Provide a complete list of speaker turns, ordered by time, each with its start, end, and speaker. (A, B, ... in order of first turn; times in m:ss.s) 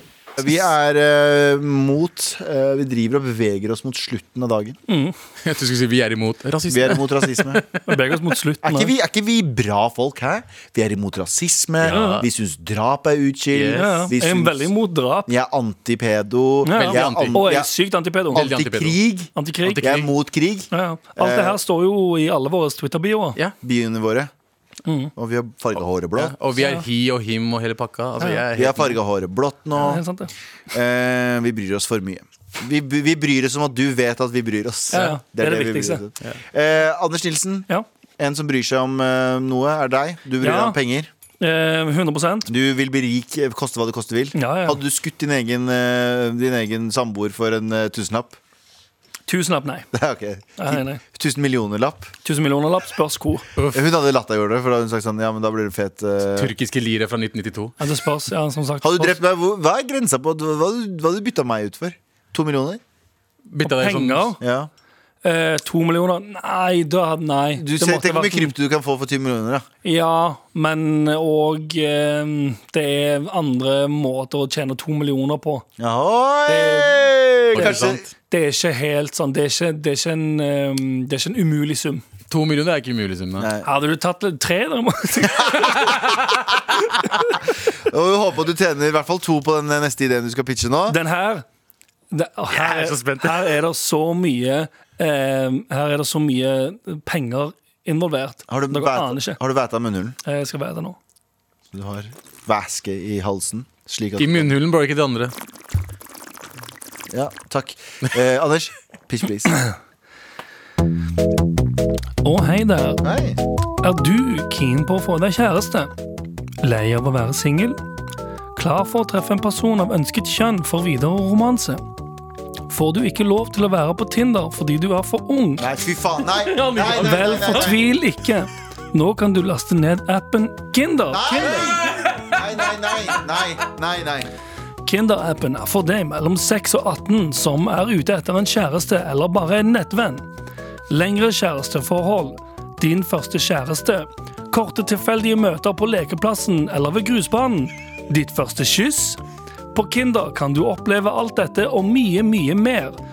0:00.4-0:04.8 A
0:04.9-0:05.1 B
0:05.4-0:07.8 C
0:06.7-0:07.6 A
0:07.9-0:08.9 B
0:08.6-0:14.7 A
0:11.8-0:12.2 C
0:11.9-0:12.2 B
0:13.5-0:14.1 C
0:13.7-0:15.3 B
0:15.3-0:17.7 A
0:16.6-0:18.4 B
0:16.7-0:17.6 C
0:18.3-0:21.6 A
0:18.3-0:19.0 C
0:19.3-0:19.8 B
0:19.6-0:20.1 C
0:20.7-0:23.4 B
0:23.6-0:24.3 A
0:24.8-0:25.1 B
0:25.2-0:26.4 A
0:26.2-0:29.0 C
0:26.6-0:26.8 B
0:28.5-0:30.0 A
0:29.8-0:30.3 B
0:30.7-0:37.7 A
0:34.9-0:36.0 B
0:38.2-0:41.1 A
0:40.4-0:40.8 B
0:41.4-0:42.5 B
0:42.4-0:48.4 A
0:44.3-0:44.8 B
0:49.3-0:49.9 B
0:49.9-0:52.1 A
0:50.6-0:51.0 B
0:52.2-0:53.4 B
0:53.6-0:53.9 C
0:53.7-0:56.5 A
0:56.4-0:57.8 C
0:57.8-0:59.2 B
0:58.8-1:02.8 A
1:03.5-1:04.3 C
1:03.6-1:04.4 B
1:04.4-1:04.7 A
1:05.2-1:08.5 B
1:07.6-1:09.6 A
1:09.8-1:15.6 B
1:15.8-1:18.0 A
1:16.5-1:17.0 B
1:17.5-1:18.1 C
1:17.5-1:22.0 B
1:22.3-1:23.5 C
1:23.4-1:23.7 A
1:23.6-1:26.0 B
1:25.6-1:26.1 A
1:25.8-1:26.3 C
1:27.0-1:31.0 A
1:30.9-1:31.4 B
1:32.1-1:39.4 B
1:32.5-1:33.5 C
1:38.5-1:40.2 A
1:40.2-1:41.0 B
1:41.7-1:44.5 A
1:44.2-1:45.3 C
1:47.1-1:49.6 A
1:52.2-1:53.0 B
1:53.0-1:53.4 A
1:53.8-1:55.9 B
1:56.6-1:57.8 B
1:58.6-2:01.8 B
2:02.7-2:05.6 B
2:05.6-2:07.8 A
2:06.3-2:07.7 C
2:06.9-2:11.8 B
2:11.1-2:14.3 A
2:14.8-2:20.3 B
2:20.9-2:29.2 B
2:29.7-2:33.0 B